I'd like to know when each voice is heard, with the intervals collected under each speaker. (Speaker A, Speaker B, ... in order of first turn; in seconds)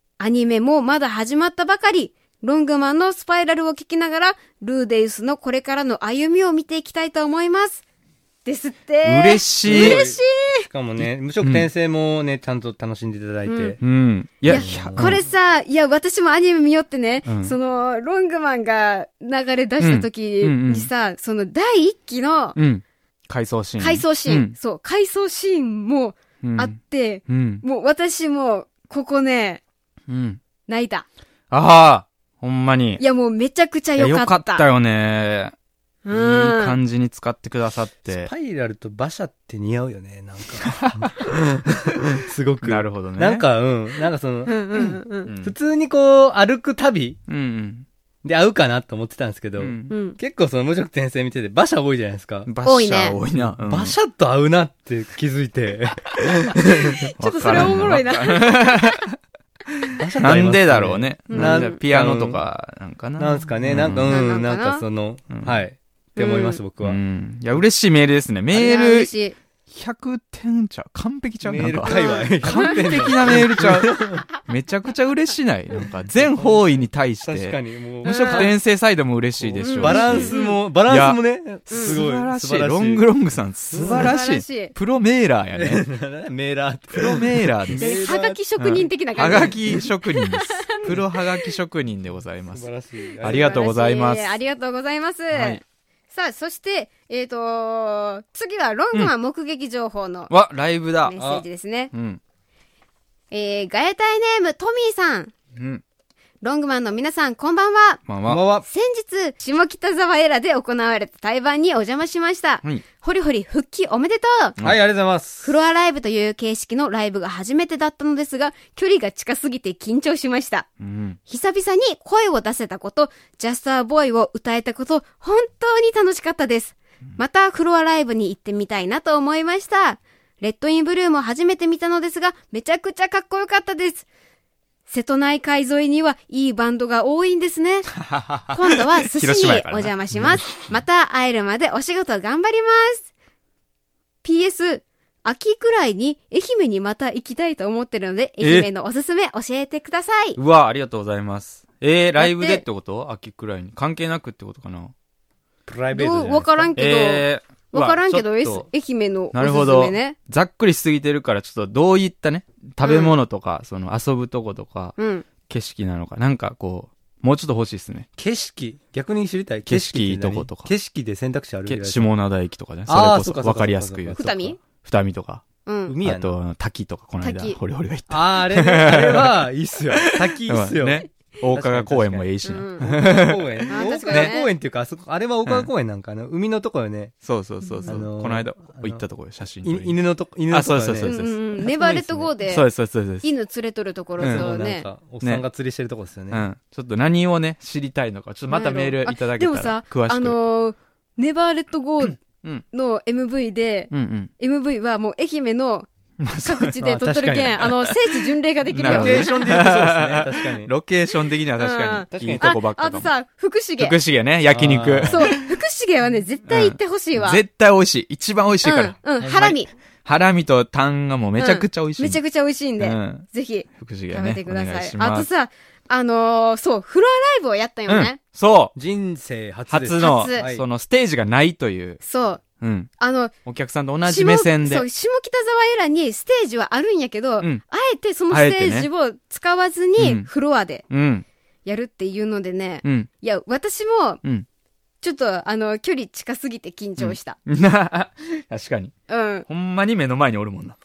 Speaker A: 0.2-7.8, 8.4-10.7, 13.4-13.8, 14.5-22.6, 23.8-29.6, 30.7-31.1, 33.0-34.6, 36.0-36.8, 44.5-45.3, 49.9-50.2, 52.6-53.2, 56.8-59.0, 61.3-61.8, 64.1-64.8, 66.2-66.6, 68.5-69.3, 71.8-73.1, 78.0-78.5, 79.6-80.6, 81.7-82.0, 83.8-84.7, 87.7-91.2, 93.2-100.3, 101.0-101.9, 103.3-105.3, 106.4-108.0, 108.6-114.6, 115.4-120.7, 121.2-134.1, 134.9-143.1, 144.2-150.4, 152.2-152.6, 155.9-160.2, 162.8-163.1, 165.0-165.2, 174.2-174.6, 175.6-175.9, 177.2-177.6, 182.4-182.9, 183.7-184.5, 187.6-188.0, 191.0-192.7, 193.2-194.9, 198.5-205.9, 206.4-209.4, 211.6-213.9, 215.1-217.4, 218.6-219.7, 221.4-228.2, 230.0-230.4, 232.0-232.4, 233.0-233.3, 234.0-240.8, 241.6-244.2, 245.0-247.4, 249.1-249.4
Speaker B: 9.0-10.0, 11.0-11.7, 13.8-15.2, 17.2-17.5, 19.8-20.9, 22.6-24.5, 26.4-26.8, 27.3-27.6, 30.1-30.4, 31.5-33.0, 34.0-35.5, 36.1-38.3, 40.6-41.1, 42.6-43.5, 44.7-45.5, 47.3-47.8, 49.6-49.9, 52.5-54.0, 57.2-59.1, 59.8-64.2, 65.3-65.6, 66.8-69.1, 69.7-85.8, 86.9-88.0, 88.6-92.7, 93.2-94.4, 95.3-95.6, 100.3-101.2, 101.9-102.2, 105.5-105.8, 108.0-108.4, 120.8-121.2, 138.1-140.8, 148.4-148.7, 150.3-154.9, 156.8-158.7, 159.3-164.9, 165.5-168.1, 169.7-170.7, 171.7-175.4, 176.0-184.4, 185.4-185.7, 187.2-193.3, 194.2-194.6, 196.3-200.3, 203.9-204.3, 206.2-206.9, 207.6-213.1, 213.8-215.4, 216.5-222.2, 222.8-223.3, 223.8-225.3, 227.9-228.7, 229.7-232.0, 232.6-232.9, 233.4-234.9, 238.3-238.9, 240.0-240.3, 240.9-241.2, 242.8-243.1, 247.0-248.9, 249.5-250.8
Speaker C: 9.6-13.8, 14.5-15.2, 38.1-44.6, 45.3-47.2, 48.2-52.5, 53.4-57.8, 60.0-62.4, 63.2-67.0, 71.4-74.2, 76.2-78.6, 79.4-83.0, 83.7-84.1, 85.5-88.4, 92.5-93.5, 101.2-101.4, 108.3-108.7, 114.6-115.5, 155.7-156.7, 168.2-172.1, 172.9-174.4, 175.9-176.3, 178.1-187.1, 187.8-189.0, 189.6-191.1, 191.8-192.3, 194.2-196.4, 206.8-207.6, 208.8-210.7, 212.1-212.5, 214.5-215.3, 228.7-230.6